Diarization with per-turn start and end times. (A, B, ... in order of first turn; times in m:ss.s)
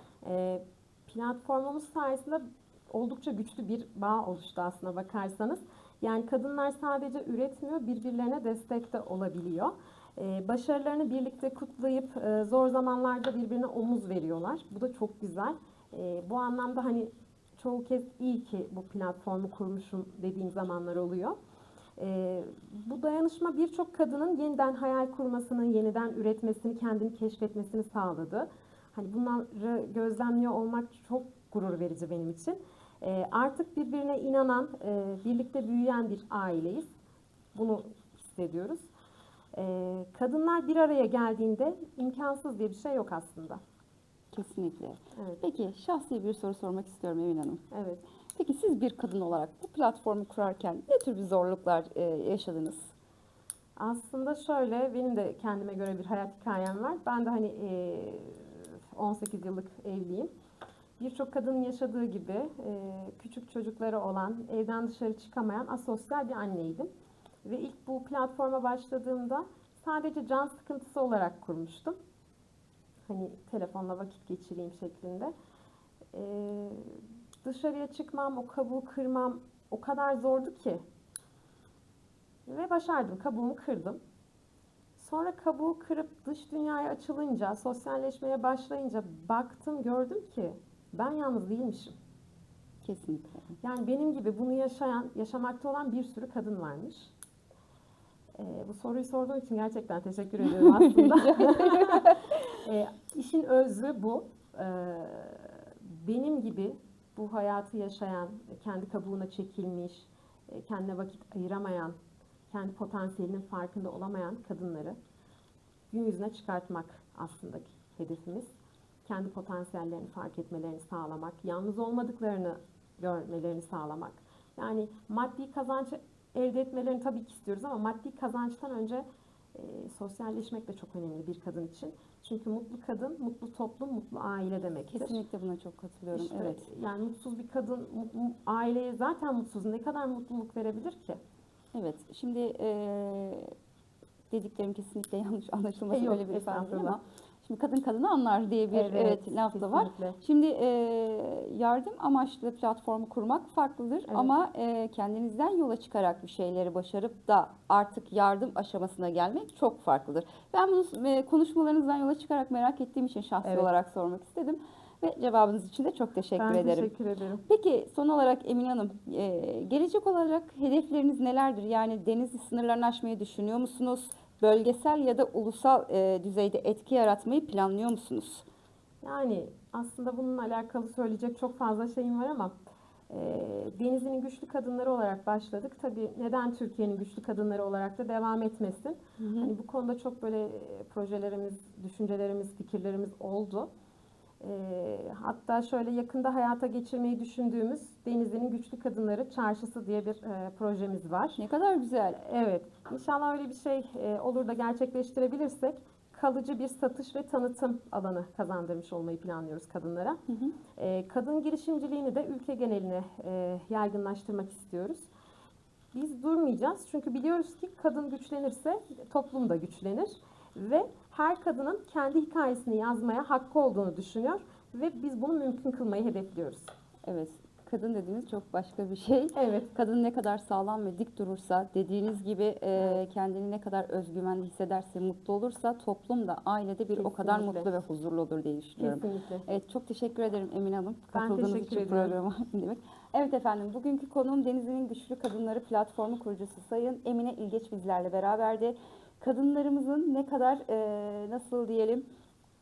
0:00.2-0:21.4 A
0:22.0-0:36.9 A
0:37.5-0:38.9 A
0:39.5-0:43.6 A
0:44.3-0:47.6 B
0:45.1-0:45.4 A
0:47.7-0:48.0 A
0:48.3-0:52.9 B
0:53.8-1:00.3 A
1:01.0-1:06.9 A
1:07.4-1:12.0 A
1:13.0-1:15.3 A
1:16.1-1:20.8 A
1:22.4-1:24.0 A
1:25.0-1:31.9 A
1:32.8-1:33.5 B
1:33.6-1:37.1 A
1:38.4-1:52.0 A
1:40.5-1:42.5 B
1:52.5-1:55.0 A
1:55.9-1:58.5 A
1:59.0-2:15.2 A
2:14.9-2:16.7 B
2:16.1-2:21.2 A
2:21.7-2:23.5 B
2:24.3-2:46.9 B
2:25.9-2:27.0 A
2:28.7-2:30.2 A
2:34.1-2:34.3 A
2:43.4-2:43.7 A
2:46.4-2:47.4 A
2:47.5-2:58.4 B
2:59.0-3:02.6 A
3:03.1-3:13.7 A
3:09.2-3:09.5 B
3:14.4-3:21.4 A
3:21.4-3:22.2 B
3:22.2-3:30.2 A
3:30.7-3:35.1 A
3:35.9-3:46.7 A
3:47.1-4:12.1 B
3:49.3-3:49.7 A
3:52.8-3:53.0 A
3:57.0-3:57.7 A
3:58.8-3:59.4 A
4:01.1-4:02.2 A